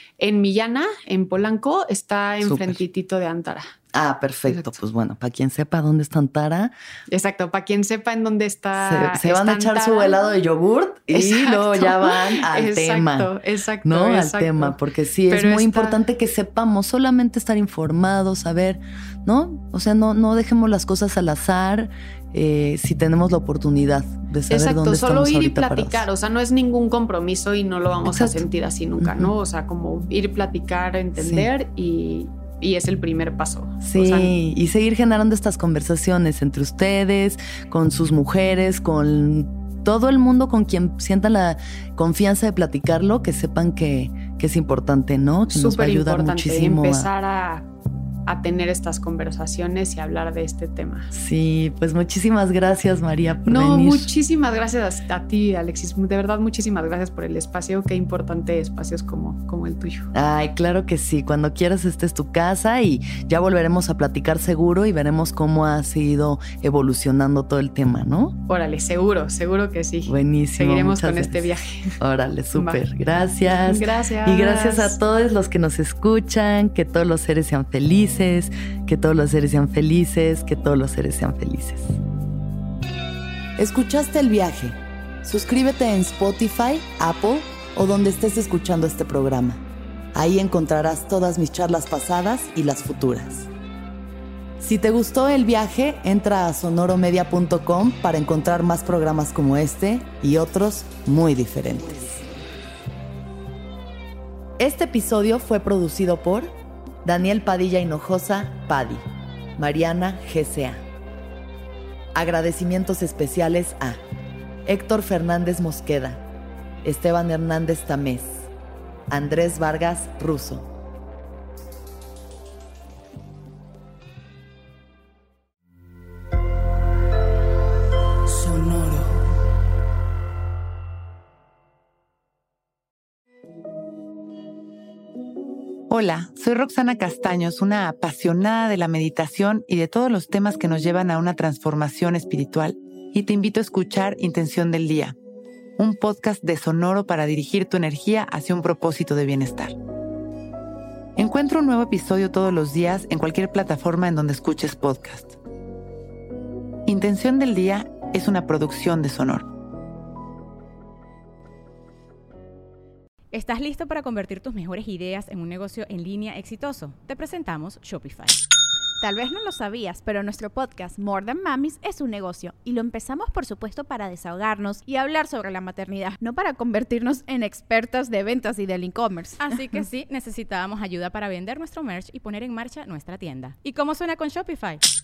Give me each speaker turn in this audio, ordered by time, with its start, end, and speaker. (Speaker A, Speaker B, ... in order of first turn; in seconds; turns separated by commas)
Speaker A: 0.2-3.7, Speaker B: 2.4-2.8, Speaker B: 3.9-6.7, Speaker A: 4.5-4.7, Speaker A: 7.1-10.2, Speaker B: 8.8-13.3, Speaker A: 11.1-14.8, Speaker B: 13.8-26.1, Speaker A: 15.3-16.0, Speaker A: 24.5-34.3, Speaker B: 28.1-28.4, Speaker B: 29.0-29.3, Speaker B: 31.2-31.5, Speaker B: 33.8-47.1, Speaker A: 45.5-47.7, Speaker A: 48.3-51.1, Speaker B: 51.1-54.1, Speaker A: 53.5-60.1, Speaker B: 60.1-68.4, Speaker A: 68.5-72.0, Speaker B: 70.1-71.4, Speaker B: 72.0-82.0, Speaker A: 72.5-72.8, Speaker A: 73.5-75.0, Speaker B: 83.6-89.6, Speaker B: 90.1-93.5, Speaker B: 94.6-102.2, Speaker B: 104.6-106.5, Speaker B: 107.0-109.1, Speaker B: 109.6-110.8, Speaker B: 112.1-114.0, Speaker B: 114.7-116.2, Speaker B: 116.8-118.5, Speaker B: 119.1-120.7, Speaker C: 135.9-145.2, Speaker C: 145.8-149.8, Speaker C: 151.2-155.4, Speaker C: 156.9-159.5, Speaker D: 163.3-168.4, Speaker E: 169.0-179.4, Speaker D: 179.4-184.8